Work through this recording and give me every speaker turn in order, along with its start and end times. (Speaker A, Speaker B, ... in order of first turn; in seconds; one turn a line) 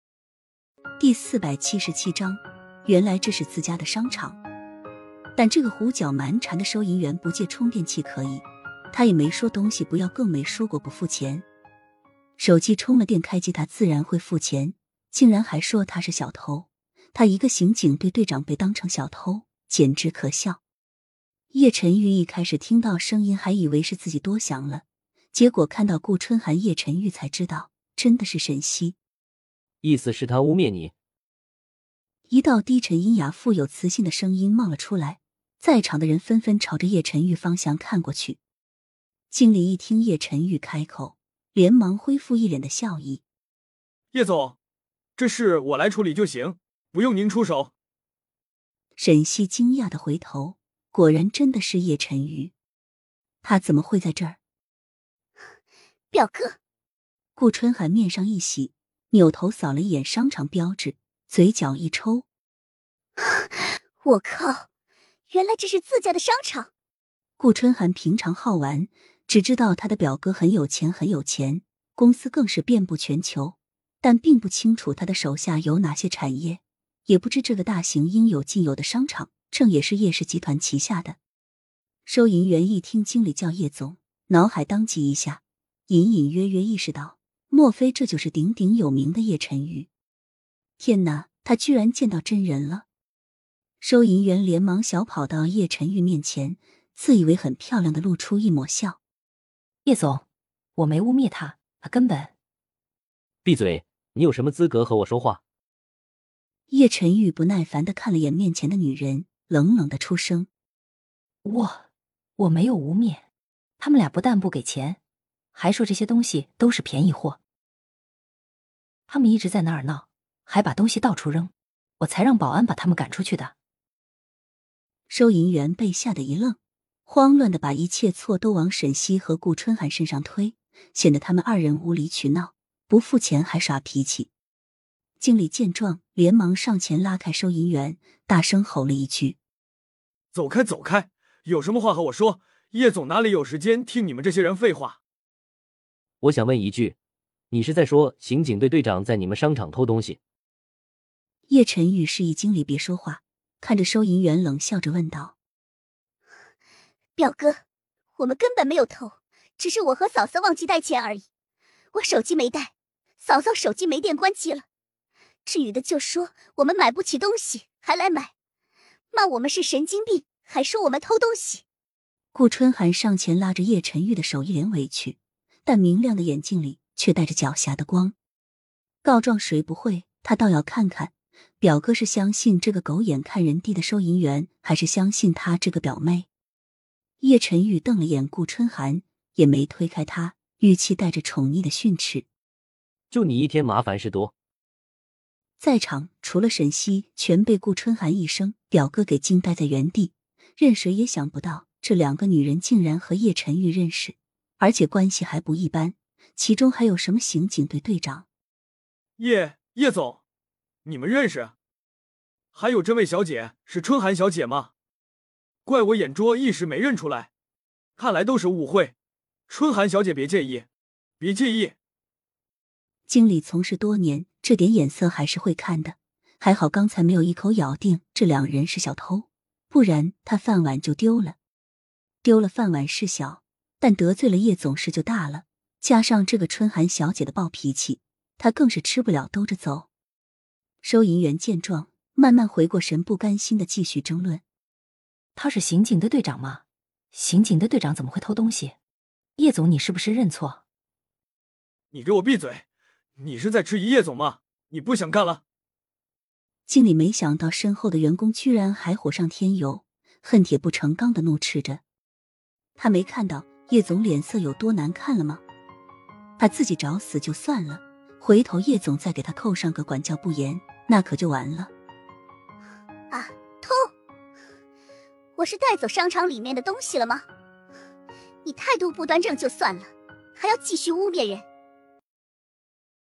Speaker A: 1.0-4.4
Speaker A: 5.4-11.4
Speaker A: 12.4-20.6
Speaker A: 21.5-29.0
Speaker B: 29.8-30.9
Speaker A: 32.3-38.4
Speaker A: 39.3-43.2
Speaker C: 44.1-44.6
Speaker C: 45.2-47.7
Speaker A: 49.0-52.5
Speaker A: 53.4-54.4
Speaker D: 56.1-56.6
Speaker A: 57.4-62.2
Speaker D: 63.2-64.7
Speaker D: 65.3-66.7
Speaker A: 67.4-81.2
Speaker A: 82.1-89.9
Speaker A: 90.8-92.9
Speaker A: 93.8-99.0
Speaker E: 99.8-100.2
Speaker E: 100.8-102.3
Speaker B: 103.4-105.4
Speaker A: 106.7-110.5
Speaker E: 111.5-111.8
Speaker E: 112.4-113.2
Speaker E: 113.8-115.0
Speaker E: 115.5-117.4
Speaker E: 119.1-123.5
Speaker A: 125.1-134.3
Speaker A: 135.2-139.4
Speaker C: 140.3-145.0
Speaker B: 146.2-147.0
Speaker B: 147.5-150.2
Speaker A: 151.5-155.4
Speaker D: 157.2-157.6
Speaker D: 158.2-161.2
Speaker D: 161.9-164.7
Speaker D: 165.4-168.3
Speaker D: 169.1-171.6
Speaker A: 172.3-178.2
Speaker A: 179.0-186.3
Speaker A: 187.2-192.3
Speaker B: 193.1-194.3
Speaker A: 195.6-208.3
Speaker C: 209.2-210.2
Speaker C: 210.8-211.5
Speaker C: 212.5-214.7
Speaker C: 215.7-217.3
Speaker C: 218.0-218.9
Speaker C: 219.5-220.7
Speaker C: 221.2-221.8
Speaker A: 223.1-231.4
Speaker A: 232.2-239.9
Speaker A: 240.8-244.4
Speaker E: 245.3-248.8
Speaker E: 249.4-250.6
Speaker C: 251.9-252.7
Speaker C: 253.2-255.4
Speaker A: 256.7-261.8
Speaker A: 262.8-265.4
Speaker A: 266.4-271.7
Speaker D: 273.1-273.9
Speaker D: 275.4-277.2
Speaker D: 278.4-281.4